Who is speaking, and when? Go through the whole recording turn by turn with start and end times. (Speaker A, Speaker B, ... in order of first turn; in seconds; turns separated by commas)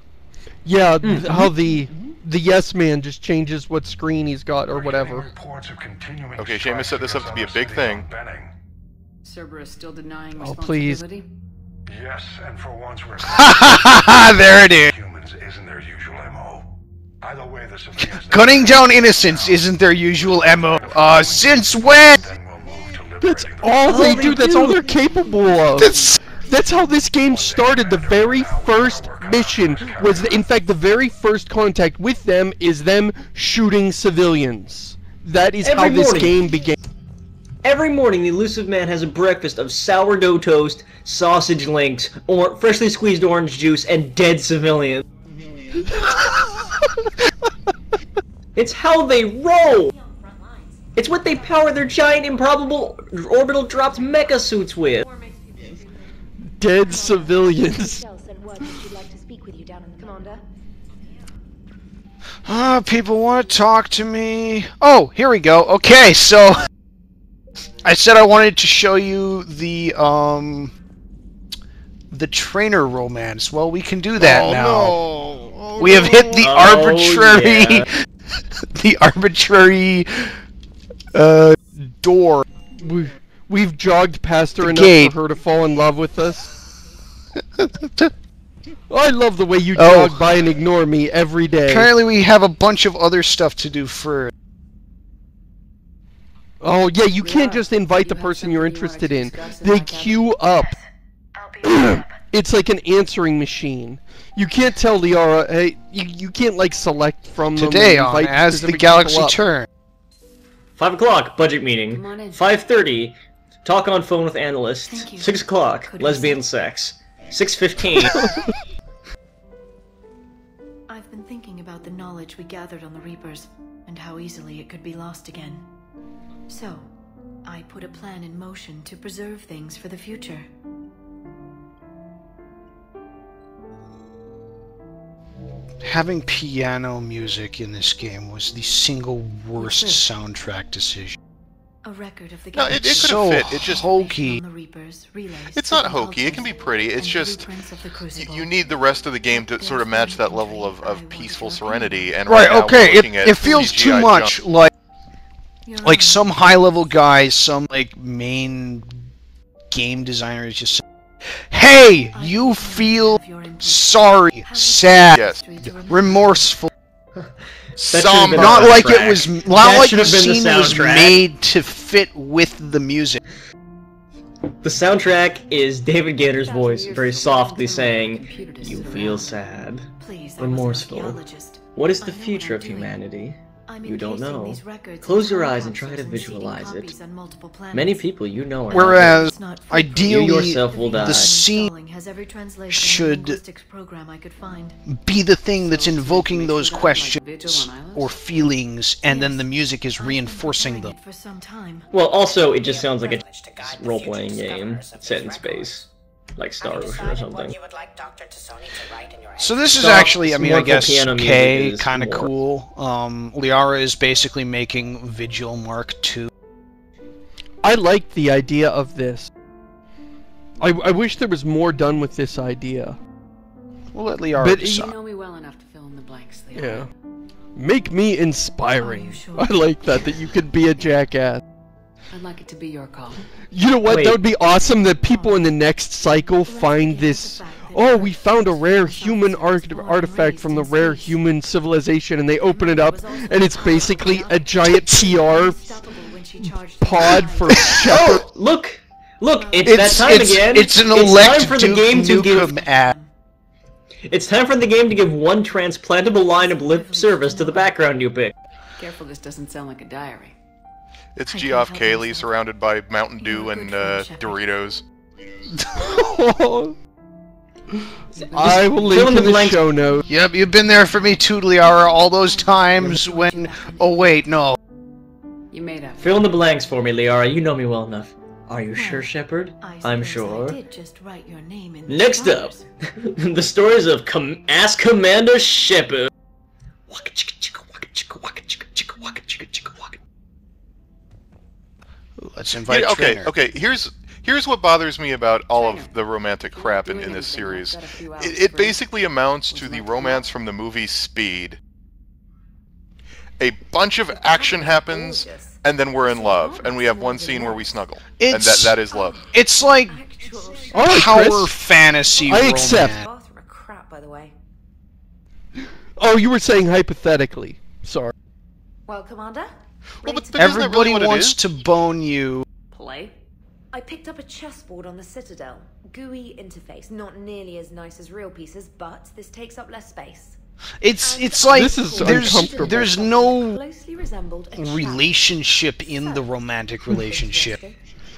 Speaker A: 0.7-5.3, Speaker B: 1.0-1.5, Speaker C: 4.7-8.5, Speaker D: 6.4-8.1, Speaker E: 9.2-11.3, Speaker A: 10.4-11.0, Speaker C: 11.9-24.5, Speaker F: 13.2-14.9, Speaker F: 18.1-22.2, Speaker A: 23.2-36.8, Speaker B: 23.8-24.8, Speaker F: 25.8-26.2, Speaker C: 26.2-30.5, Speaker B: 35.6-36.4, Speaker B: 37.6-45.1, Speaker B: 48.5-49.9, Speaker G: 49.9-51.1, Speaker B: 51.0-55.1, Speaker G: 55.0-55.6, Speaker A: 56.5-58.0, Speaker G: 56.8-60.4, Speaker F: 62.5-66.7, Speaker F: 67.8-70.7, Speaker F: 72.1-75.0, Speaker A: 74.2-76.4, Speaker D: 75.1-75.7, Speaker F: 75.8-78.0, Speaker B: 76.4-77.9, Speaker F: 78.6-80.4, Speaker F: 81.1-82.5, Speaker A: 82.7-86.5, Speaker F: 84.6-85.1, Speaker F: 87.6-88.1, Speaker A: 88.9-91.9, Speaker F: 89.8-90.3, Speaker F: 91.7-94.3, Speaker A: 96.6-100.7, Speaker E: 97.2-100.4, Speaker H: 101.4-102.0, Speaker A: 101.6-109.4, Speaker F: 107.5-109.7, Speaker B: 110.8-118.3, Speaker E: 111.9-112.6, Speaker H: 114.9-116.4, Speaker A: 118.1-118.4, Speaker H: 120.9-125.7, Speaker H: 126.5-126.9, Speaker H: 127.5-130.5, Speaker F: 135.8-141.2, Speaker H: 139.6-140.1, Speaker H: 141.8-152.2, Speaker D: 142.5-143.9, Speaker F: 142.7-144.4, Speaker D: 145.5-147.5, Speaker D: 148.1-154.3, Speaker F: 152.3-154.7, Speaker H: 155.7-156.8, Speaker F: 155.8-159.1, Speaker F: 159.7-166.7, Speaker H: 162.1-166.5, Speaker D: 165.1-165.4, Speaker B: 167.2-171.2, Speaker D: 167.8-169.2, Speaker F: 168.3-173.2, Speaker B: 174.6-179.9, Speaker E: 176.3-179.4, Speaker H: 180.0-183.0, Speaker B: 180.4-181.2, Speaker B: 181.8-186.9, Speaker H: 183.7-188.1, Speaker B: 187.7-189.2, Speaker F: 188.7-191.7, Speaker H: 188.7-194.8, Speaker B: 190.0-191.3, Speaker F: 192.7-193.4, Speaker F: 194.9-200.9, Speaker E: 195.6-198.2, Speaker H: 199.1-201.9, Speaker B: 201.9-207.6, Speaker F: 209.4-216.3, Speaker B: 209.6-212.3, Speaker A: 217.6-219.3, Speaker A: 220.6-223.0, Speaker F: 223.9-224.9, Speaker A: 224.4-224.8, Speaker E: 224.7-226.9, Speaker A: 226.6-226.9, Speaker A: 227.6-231.4, Speaker H: 228.8-229.6, Speaker E: 232.1-233.3, Speaker A: 233.5-245.6, Speaker B: 233.9-234.2, Speaker H: 235.0-235.5, Speaker H: 236.4-241.2, Speaker H: 242.5-248.1, Speaker G: 243.3-244.4, Speaker A: 246.4-248.2, Speaker B: 247.6-252.5, Speaker H: 249.3-253.1, Speaker F: 249.7-252.9, Speaker A: 249.7-250.2, Speaker B: 254.1-258.3, Speaker H: 256.1-257.8, Speaker E: 258.8-260.4, Speaker D: 261.2-264.8, Speaker H: 261.3-262.4, Speaker H: 263.2-264.5, Speaker A: 265.7-266.8, Speaker E: 268.2-269.1, Speaker B: 268.3-269.6, Speaker A: 268.3-270.1, Speaker F: 270.1-274.6, Speaker H: 271.6-274.1, Speaker E: 275.5-276.3, Speaker B: 276.0-280.6, Speaker H: 278.7-282.7, Speaker B: 281.9-286.1, Speaker B: 286.9-290.0, Speaker F: 292.2-293.3, Speaker D: 292.7-301.6, Speaker E: 295.5-296.0, Speaker E: 296.5-298.9, Speaker E: 299.5-300.3, Speaker D: 303.4-309.2, Speaker G: 304.1-305.6, Speaker E: 306.1-307.9, Speaker F: 308.2-308.8, Speaker G: 308.9-311.2, Speaker F: 309.3-310.0, Speaker A: 310.7-311.6, Speaker F: 310.7-313.1, Speaker G: 312.0-314.3, Speaker A: 312.2-313.0, Speaker A: 316.0-318.1, Speaker G: 318.9-320.8, Speaker D: 320.0-321.4, Speaker F: 320.4-322.5, Speaker E: 322.7-323.1, Speaker G: 323.7-330.4, Speaker F: 330.8-333.6, Speaker G: 331.0-336.3, Speaker A: 331.5-332.9, Speaker F: 334.5-337.6, Speaker G: 336.9-337.8